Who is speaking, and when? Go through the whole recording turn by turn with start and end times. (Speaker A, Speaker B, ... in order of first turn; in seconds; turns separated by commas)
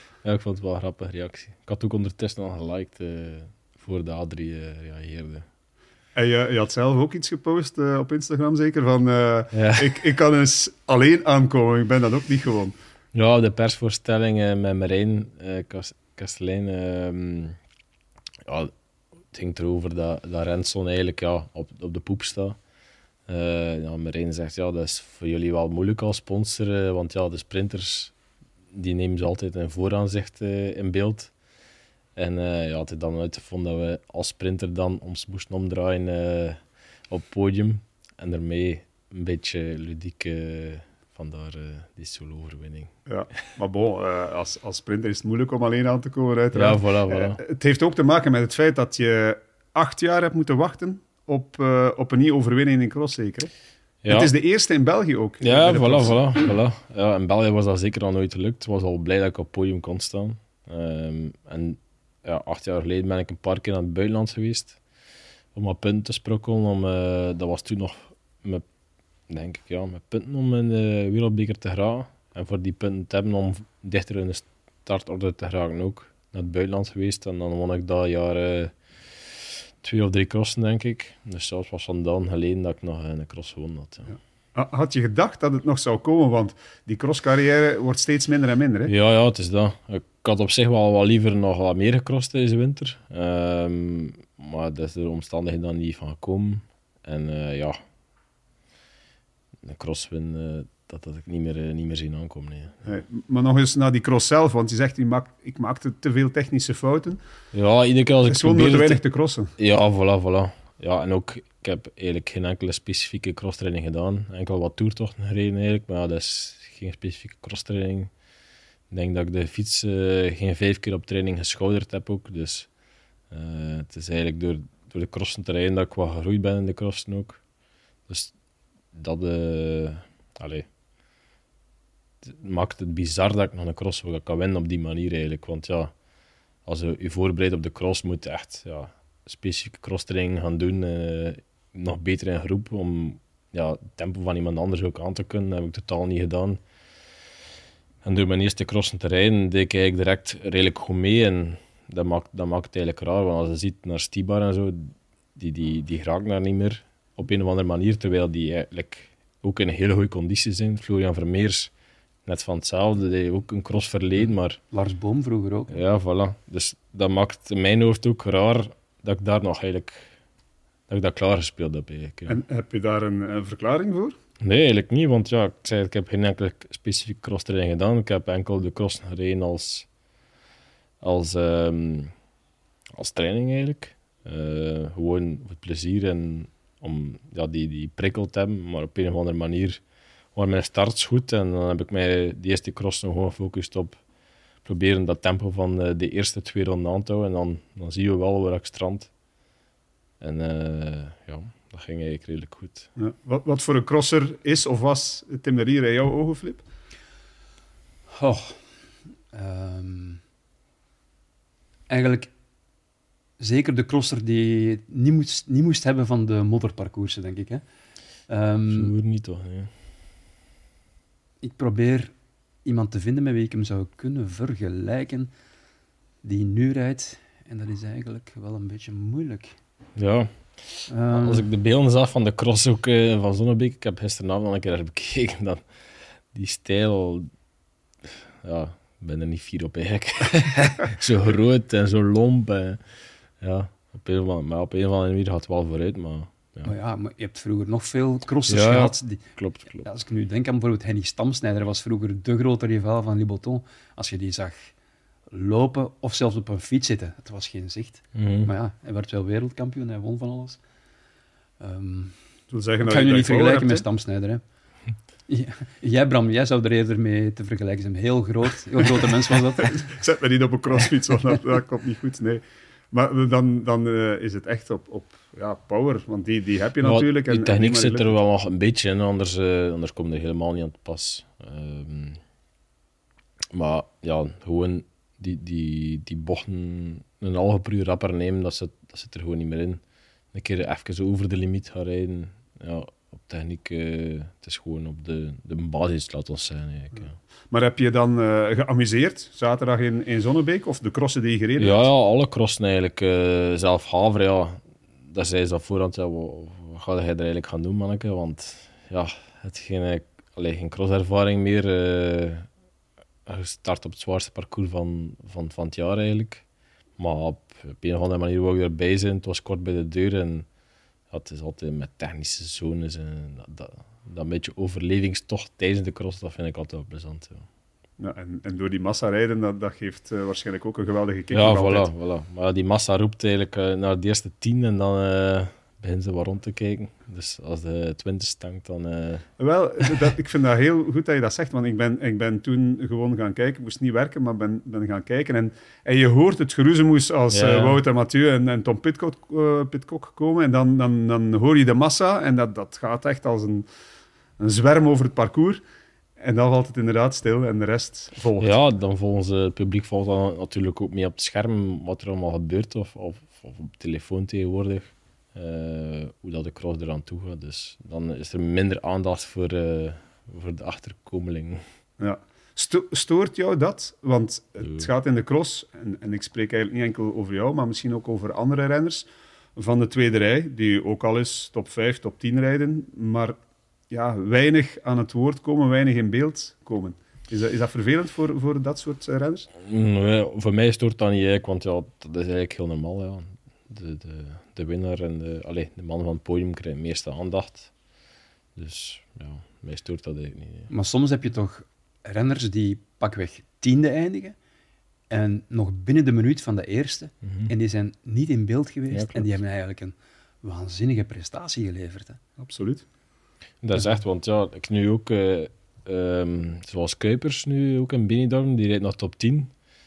Speaker A: 0.2-5.5, Speaker B: 6.1-12.7, Speaker A: 9.5-9.9, Speaker A: 13.1-17.6, Speaker A: 18.4-18.7, Speaker A: 19.3-22.6, Speaker A: 23.3-28.1, Speaker A: 28.7-31.3, Speaker A: 32.1-42.9, Speaker B: 43.1-53.5, Speaker A: 46.5-47.4, Speaker A: 54.0-54.3, Speaker B: 54.1-56.2, Speaker A: 55.4-64.8, Speaker A: 65.5-68.6, Speaker A: 69.3-84.1, Speaker B: 84.5-88.9, Speaker A: 88.9-97.8, Speaker A: 99.6-102.8, Speaker B: 102.8-107.2, Speaker A: 107.5-109.0, Speaker B: 108.3-109.5, Speaker A: 109.6-118.1, Speaker A: 118.9-122.7, Speaker A: 123.3-127.4, Speaker A: 128.1-128.3, Speaker A: 128.9-130.7, Speaker A: 132.2-135.9, Speaker A: 136.7-146.6, Speaker A: 148.0-161.7, Speaker A: 162.2-164.6, Speaker C: 164.7-165.8, Speaker A: 165.7-170.1, Speaker A: 170.9-172.4, Speaker B: 172.3-174.2, Speaker A: 174.4-179.9, Speaker A: 181.0-182.1, Speaker A: 182.9-189.8, Speaker A: 190.3-194.0, Speaker A: 194.6-199.1, Speaker A: 200.2-202.9, Speaker B: 203.0-206.6, Speaker C: 208.1-208.6, Speaker C: 209.3-210.2, Speaker C: 211.9-212.3, Speaker C: 213.4-217.6, Speaker C: 218.3-218.9, Speaker A: 218.7-219.7, Speaker C: 221.4-222.1, Speaker C: 222.6-225.3, Speaker C: 226.2-229.5, Speaker A: 230.0-235.7, Speaker C: 230.9-231.4, Speaker A: 236.3-237.3, Speaker A: 238.0-242.8, Speaker A: 243.4-246.7, Speaker C: 246.6-249.2, Speaker A: 248.5-249.9, Speaker C: 249.8-254.7, Speaker C: 255.3-260.6, Speaker A: 258.1-258.5, Speaker C: 261.6-262.1, Speaker B: 262.5-263.8, Speaker C: 262.8-264.4, Speaker C: 265.3-269.8, Speaker B: 269.6-278.1, Speaker A: 276.8-282.2, Speaker A: 283.5-289.8, Speaker A: 290.3-297.1, Speaker B: 297.5-301.9, Speaker A: 301.6-312.5, Speaker A: 313.2-316.4, Speaker A: 317.0-320.5, Speaker A: 321.1-327.4, Speaker B: 328.0-331.9, Speaker A: 331.3-339.2, Speaker B: 339.4-353.7, Speaker A: 347.3-347.8, Speaker B: 354.4-355.6, Speaker B: 356.2-358.6, Speaker A: 358.4-371.6, Speaker B: 372.0-383.4, Speaker B: 383.9-389.5, Speaker A: 389.6-397.7, Speaker A: 398.6-400.7, Speaker C: 400.7-404.4, Speaker C: 405.1-412.2, Speaker A: 407.2-407.5, Speaker A: 408.9-409.3, Speaker B: 412.4-412.8, Speaker A: 413.6-419.5